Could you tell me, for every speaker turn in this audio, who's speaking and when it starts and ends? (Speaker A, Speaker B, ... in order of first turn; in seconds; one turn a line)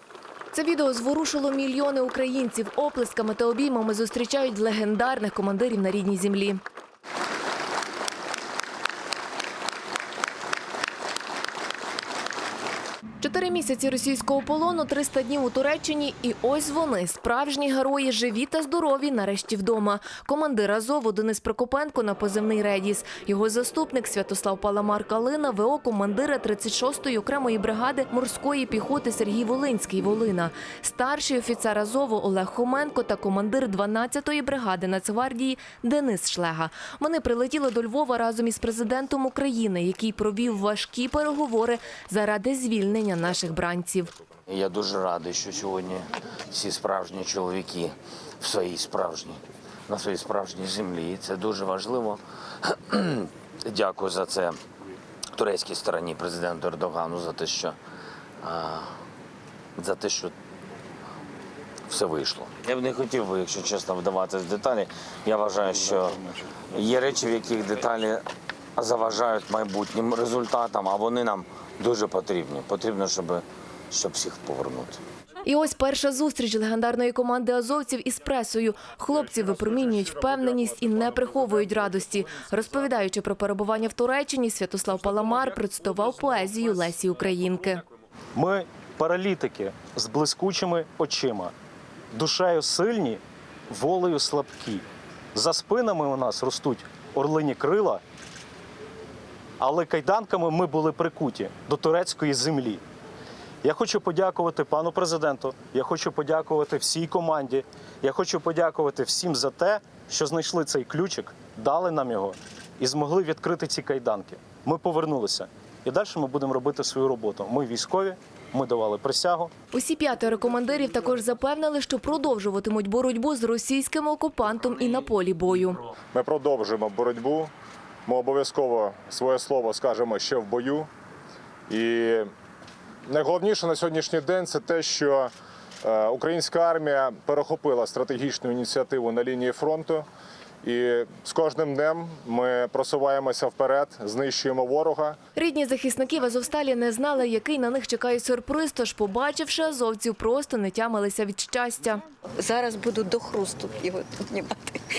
Speaker A: 0.5-6.6
Speaker A: 13.2-44.1
Speaker B: 44.5-54.6
Speaker B: 55.3-57.8
Speaker B: 58.4-58.9
Speaker B: 59.8-60.3
Speaker B: 61.9-68.2
Speaker B: 68.8-75.0
Speaker A: 75.5-87.8
Speaker C: 88.3-91.5
Speaker C: 92.1-98.0
Speaker C: 99.6-102.8
Speaker C: 103.6-119.5
Speaker A: 119.7-125.8
Speaker D: 126.1-127.5
Speaker D: 128.1-130.9
Speaker D: 131.7-132.3
Speaker D: 133.1-135.3
Speaker D: 135.8-140.1
Speaker D: 140.6-145.2
Speaker A: 145.4-152.0
Speaker E: 152.4-154.5